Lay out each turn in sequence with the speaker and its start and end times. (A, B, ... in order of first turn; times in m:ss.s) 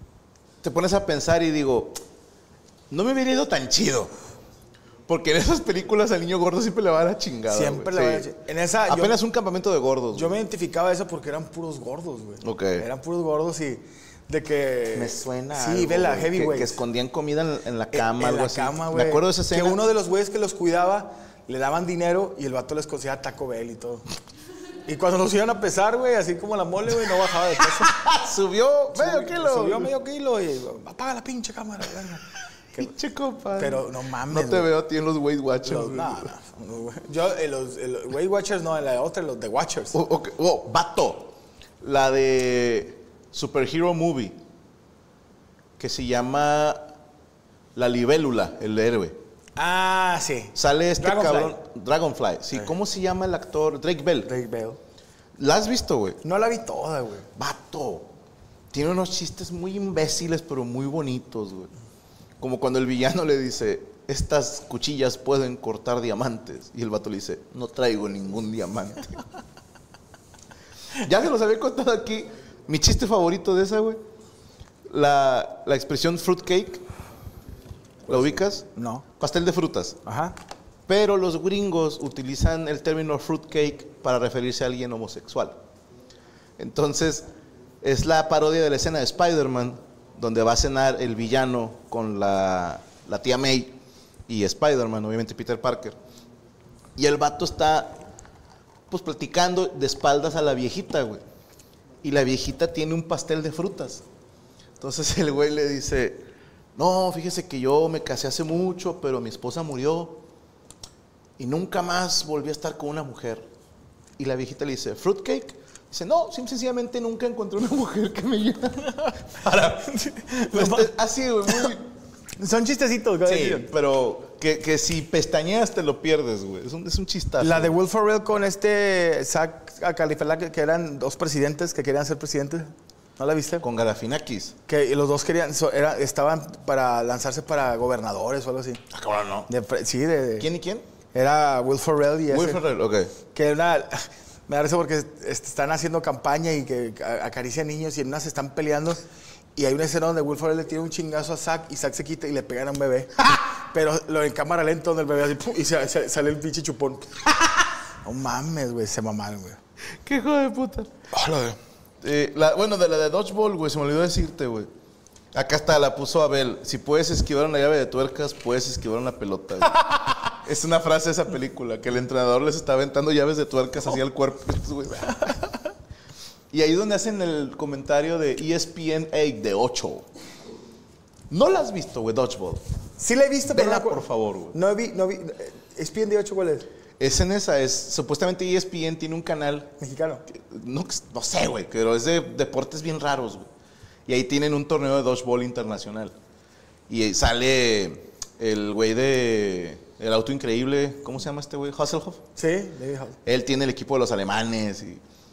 0:00.6-0:02.0 A
0:02.9-0:04.1 A
0:05.1-0:08.3 A
0:07.5-0:09.2 B
0:08.8-0:10.4 A
0:10.1-0:16.8 B
0:12.4-0:12.8 A
0:14.9-0:19.8 A
0:17.9-0:24.0 B
0:24.8-0:28.0 B
0:27.8-0:29.9 A
0:28.9-0:32.9 B
0:32.8-0:36.3 A
0:33.6-0:34.7 B
0:35.6-0:40.0 B
0:39.9-0:44.4 A
0:45.8-0:46.9 A
0:47.8-0:49.2 A
0:49.6-0:51.6 B
0:50.5-0:54.3 A
0:54.2-0:54.8 B
0:55.4-0:56.2 A
0:56.2-0:57.3 B
0:57.4-0:58.1 A
0:58.7-1:01.7 A
1:02.4-1:09.2 A
1:11.0-1:14.0 A
1:14.9-1:16.8 A
1:18.1-1:20.0 A
1:18.1-1:19.0 B
1:20.0-1:20.4 B
1:20.9-1:25.6 A
1:26.6-1:27.3 A
1:27.8-1:33.8 A
1:34.3-1:36.0 A
1:37.0-1:38.0 A
1:38.9-1:41.2 A
1:42.0-1:44.0 A
1:44.8-1:50.2 A
1:51.4-1:53.5 A
1:54.2-1:59.9 A
1:59.8-2:00.9 B
2:00.5-2:01.8 A
2:02.4-2:03.7 B
2:03.2-2:07.7 A
2:07.4-2:13.6 B
2:13.6-2:14.6 A
2:14.7-2:18.8 B
2:18.9-2:19.5 A
2:19.5-2:20.5 B
2:20.4-2:20.8 A
2:21.1-2:22.6 B
2:22.3-2:23.1 A
2:23.3-2:29.0 B
2:29.6-2:37.2 B
2:38.0-2:39.6 B
2:40.0-2:40.9 A
2:41.1-2:41.6 B
2:42.0-2:44.7 A
2:45.3-2:55.3 A
2:56.5-3:00.1 A
3:01.3-3:02.6 A
3:03.0-3:06.7 B
3:03.4-3:04.6 A
3:07.0-3:09.7 A
3:09.8-3:10.2 B
3:10.3-3:13.5 A
3:14.1-3:16.1 A
3:16.9-3:22.2 A
3:22.4-3:23.2 B
3:23.2-3:25.0 A